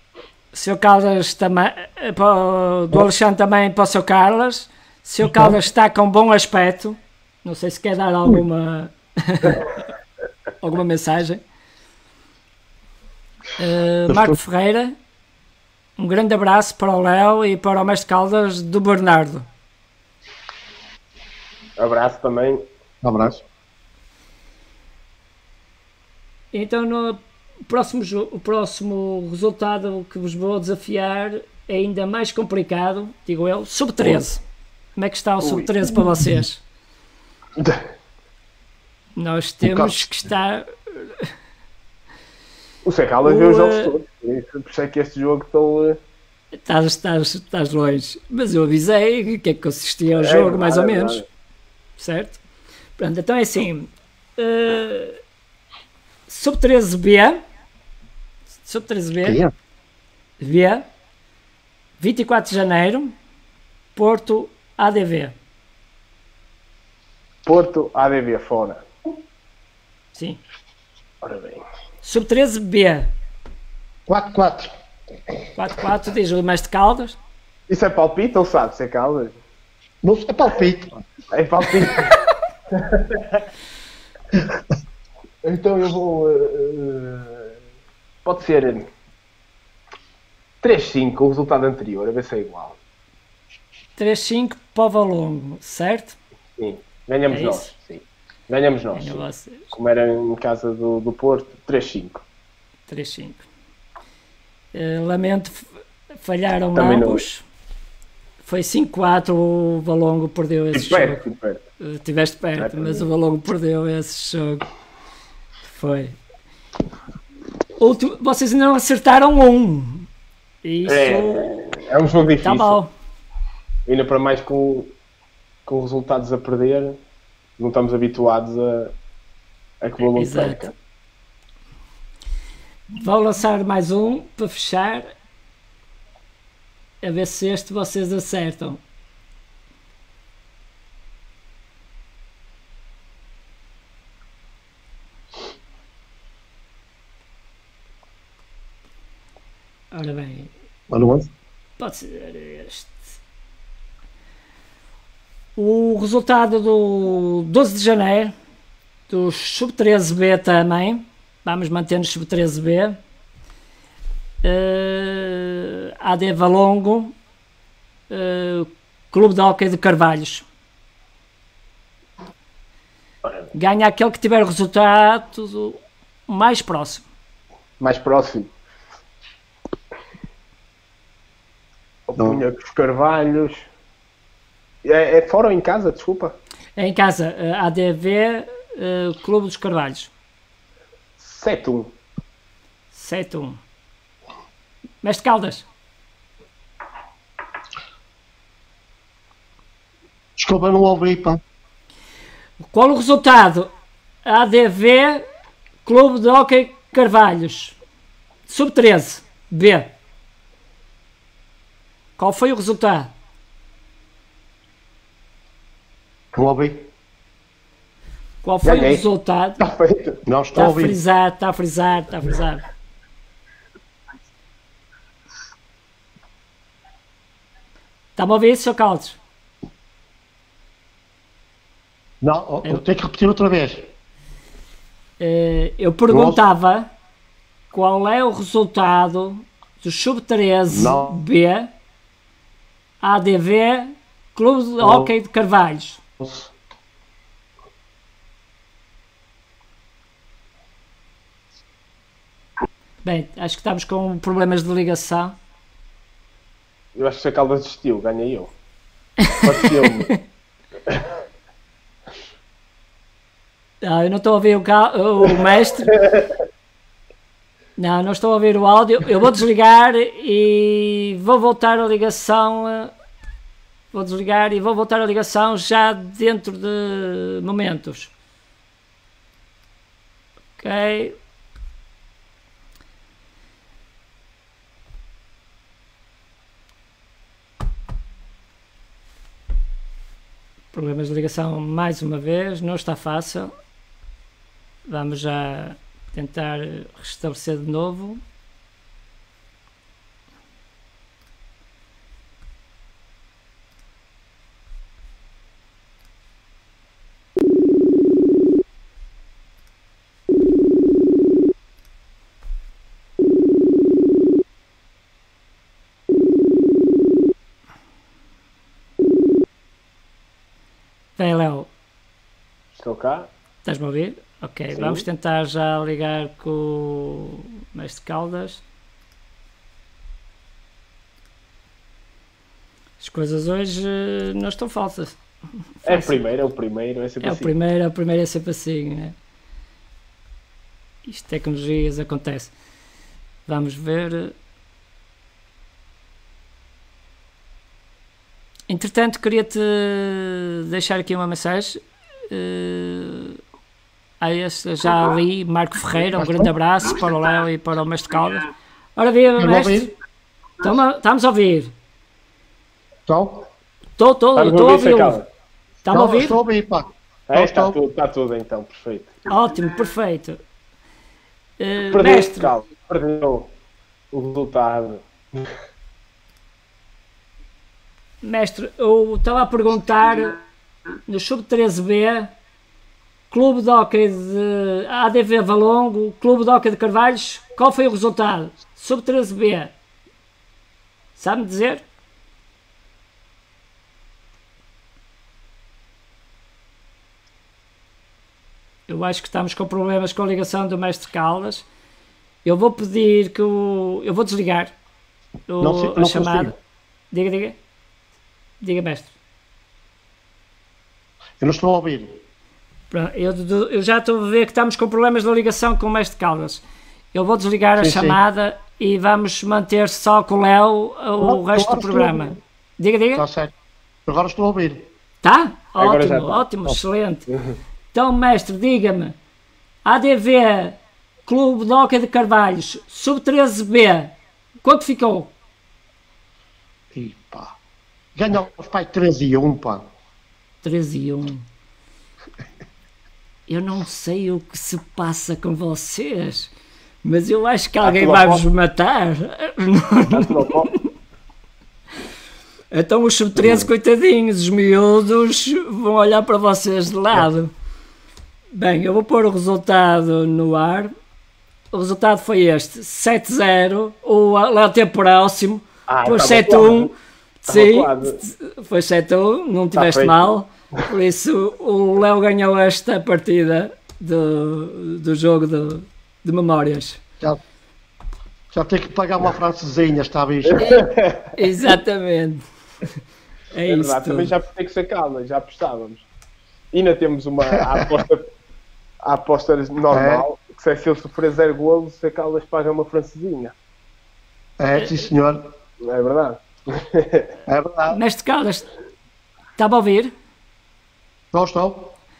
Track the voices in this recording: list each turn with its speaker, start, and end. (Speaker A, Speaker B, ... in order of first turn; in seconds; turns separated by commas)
Speaker A: 0.5-9.7, Speaker A: 10.6-11.4, Speaker A: 13.6-14.9, Speaker B: 14.1-14.4, Speaker A: 16.0-19.4, Speaker C: 21.8-22.6, Speaker B: 23.0-23.4, Speaker A: 26.5-34.4, Speaker A: 35.0-36.6, Speaker C: 35.4-36.0, Speaker C: 37.6-37.8, Speaker A: 39.2-41.3, Speaker C: 39.6-40.1, Speaker C: 42.8-46.0, Speaker A: 43.2-44.0, Speaker A: 46.6-51.2, Speaker C: 50.2-51.2, Speaker A: 52.0-52.4, Speaker A: 53.0-55.2, Speaker A: 56.3-57.4, Speaker A: 58.6-59.4, Speaker B: 59.2-59.5, Speaker A: 60.4-60.9, Speaker A: 62.0-63.1, Speaker A: 63.9-65.3, Speaker C: 67.4-68.8, Speaker A: 70.1-70.4, Speaker C: 71.2-71.6, Speaker A: 72.0-73.1, Speaker B: 74.1-74.7, Speaker A: 75.5-77.2, Speaker C: 77.7-79.4, Speaker B: 80.0-81.0, Speaker C: 81.3-82.2, Speaker C: 82.7-83.2, Speaker C: 85.4-87.5, Speaker C: 88.2-88.9, Speaker C: 90.6-92.8, Speaker A: 94.0-96.2, Speaker C: 96.6-102.2, Speaker A: 97.3-97.7, Speaker A: 98.9-99.7, Speaker A: 102.9-103.4, Speaker A: 104.7-107.4, Speaker C: 106.7-107.2, Speaker A: 108.4-111.2, Speaker C: 110.7-111.6, Speaker A: 111.8-114.7, Speaker C: 112.6-113.1, Speaker A: 115.6-116.2, Speaker A: 117.8-120.1, Speaker A: 120.6-121.5, Speaker C: 120.8-122.8, Speaker A: 122.4-122.9, Speaker C: 123.8-124.9, Speaker C: 125.7-127.0, Speaker C: 127.6-128.9, Speaker C: 129.8-130.7, Speaker A: 130.1-130.7, Speaker A: 132.9-135.1, Speaker A: 137.0-138.8, Speaker A: 149.9-150.5, Speaker B: 150.9-151.3, Speaker A: 151.8-153.0, Speaker A: 155.6-158.3, Speaker A: 159.1-163.0, Speaker A: 164.4-167.2, Speaker A: 168.1-170.4, Speaker A: 173.5-177.0, Speaker C: 177.8-178.5, Speaker C: 182.1-183.7, Speaker B: 182.2-182.4, Speaker C: 184.8-186.4, Speaker A: 186.8-190.1, Speaker C: 191.2-191.9, Speaker A: 192.9-193.6, Speaker A: 195.0-195.6, Speaker B: 200.4-201.4, Speaker A: 202.6-203.7, Speaker A: 204.2-205.2, Speaker A: 205.8-207.8, Speaker A: 208.5-209.9, Speaker A: 212.2-213.1, Speaker B: 216.3-216.9, Speaker A: 218.4-219.6, Speaker C: 218.6-219.0, Speaker C: 219.6-220.2, Speaker B: 220.2-221.0, Speaker A: 220.5-222.6, Speaker A: 228.2-229.2, Speaker B: 232.2-233.9, Speaker A: 235.2-236.9, Speaker B: 236.1-236.4, Speaker A: 237.7-241.7, Speaker B: 240.7-241.2, Speaker A: 243.0-246.0, Speaker B: 244.8-245.1, Speaker B: 246.2-246.5, Speaker A: 253.0-255.3, Speaker C: 256.9-258.5, Speaker C: 259.4-260.1, Speaker A: 263.8-266.0, Speaker A: 267.8-272.9, Speaker A: 273.9-278.1, Speaker A: 280.6-281.1, Speaker A: 290.7-293.5, Speaker A: 294.9-298.2, Speaker A: 321.2-321.7, Speaker C: 322.7-323.3, Speaker A: 323.6-328.6, Speaker C: 324.7-325.0, Speaker A: 333.0-335.2, Speaker A: 335.8-336.2, Speaker C: 335.9-337.5, Speaker A: 337.2-339.1, Speaker A: 341.0-342.5, Speaker A: 343.4-344.3, Speaker A: 348.7-353.4, Speaker A: 354.2-359.9, Speaker B: 356.1-356.5, Speaker B: 359.4-359.9, Speaker A: 360.6-361.7, Speaker B: 363.1-363.5, Speaker A: 364.0-365.2, Speaker C: 364.4-365.2, Speaker A: 365.8-366.4, Speaker B: 365.9-367.8, Speaker C: 367.3-369.2, Speaker A: 369.3-370.4, Speaker A: 371.6-372.5, Speaker C: 371.9-373.5, Speaker C: 374.1-375.5, Speaker A: 378.2-380.4, Speaker A: 381.1-382.3, Speaker A: 383.3-389.7, Speaker A: 391.1-391.8, Speaker A: 398.9-401.6, Speaker A: 402.4-404.7, Speaker A: 405.5-406.5, Speaker B: 405.6-406.5, Speaker A: 407.1-407.6, Speaker A: 408.6-409.1, Speaker B: 411.4-412.2, Speaker A: 412.9-416.6, Speaker A: 417.1-423.2, Speaker B: 417.8-418.2, Speaker B: 421.2-422.4, Speaker B: 423.1-423.5, Speaker B: 424.1-424.9, Speaker A: 425.2-427.3, Speaker C: 425.8-426.4, Speaker C: 427.3-427.6, Speaker A: 427.9-429.1, Speaker A: 429.8-435.3, Speaker B: 436.9-437.6, Speaker B: 438.1-439.8, Speaker A: 440.6-441.4, Speaker A: 443.5-446.5, Speaker A: 447.0-450.7, Speaker C: 447.8-448.4, Speaker C: 450.1-450.7, Speaker A: 452.7-457.5, Speaker A: 458.5-460.9, Speaker A: 461.7-466.9, Speaker C: 465.9-466.9, Speaker A: 467.5-477.0, Speaker C: 467.5-468.2, Speaker C: 469.7-470.3, Speaker B: 478.5-480.8, Speaker C: 480.6-481.3, Speaker A: 481.4-482.4, Speaker A: 483.5-484.3, Speaker C: 483.7-486.0, Speaker C: 486.7-488.2, Speaker C: 489.0-493.5, Speaker B: 489.9-490.2, Speaker B: 494.6-495.4, Speaker C: 495.8-497.3, Speaker B: 497.5-498.0, Speaker A: 497.9-498.6, Speaker A: 499.6-500.1, Speaker B: 501.3-501.9